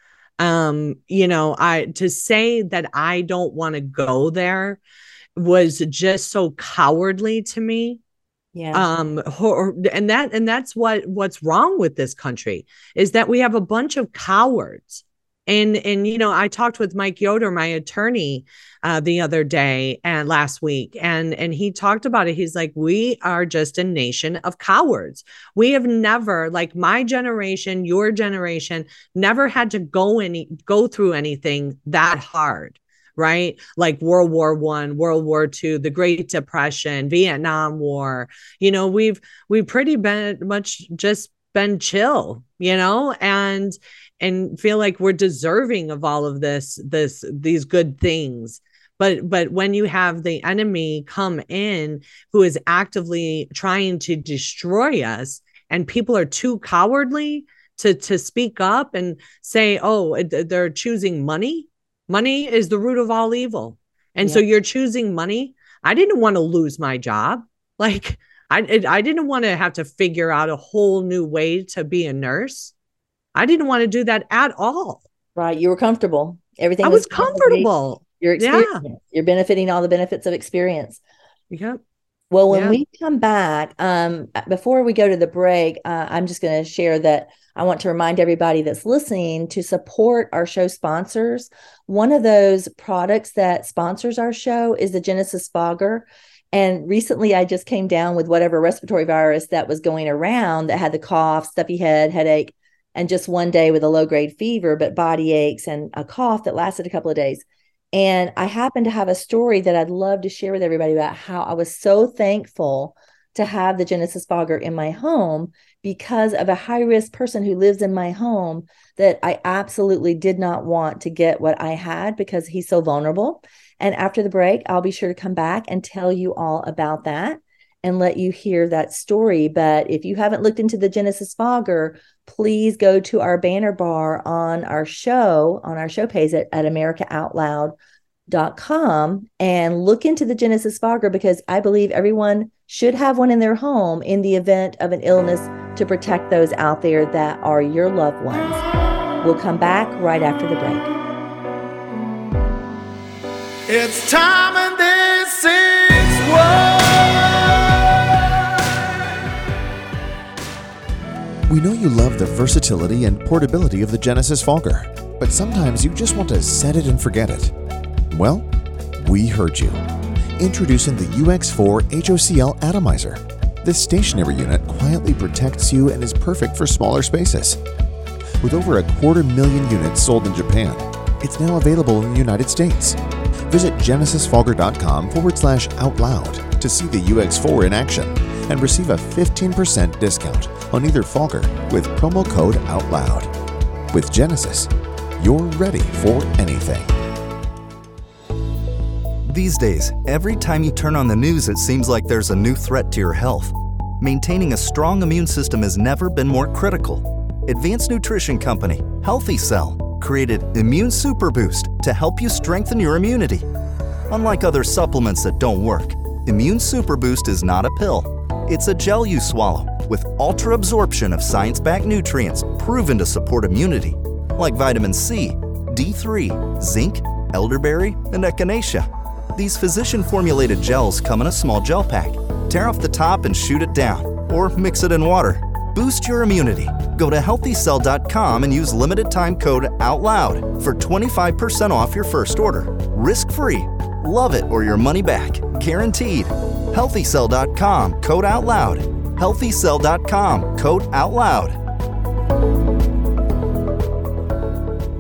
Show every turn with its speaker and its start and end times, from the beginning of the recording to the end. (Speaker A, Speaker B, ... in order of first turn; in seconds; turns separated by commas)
Speaker A: 0.4-4.8, Speaker A: 5.3-8.0, Speaker B: 8.5-8.9, Speaker A: 8.7-72.7, Speaker A: 73.3-75.0, Speaker B: 75.3-81.0, Speaker A: 76.8-78.8, Speaker A: 81.5-81.8, Speaker B: 82.3-137.7, Speaker A: 82.5-82.8, Speaker B: 138.3-148.6, Speaker B: 149.2-150.9, Speaker C: 153.7-158.4, Speaker D: 161.5-167.5, Speaker D: 168.1-168.5, Speaker D: 169.0-169.8, Speaker D: 170.4-177.6, Speaker D: 178.4-182.9, Speaker D: 183.5-193.3, Speaker D: 193.9-196.9, Speaker E: 199.2-213.4, Speaker E: 214.1-251.6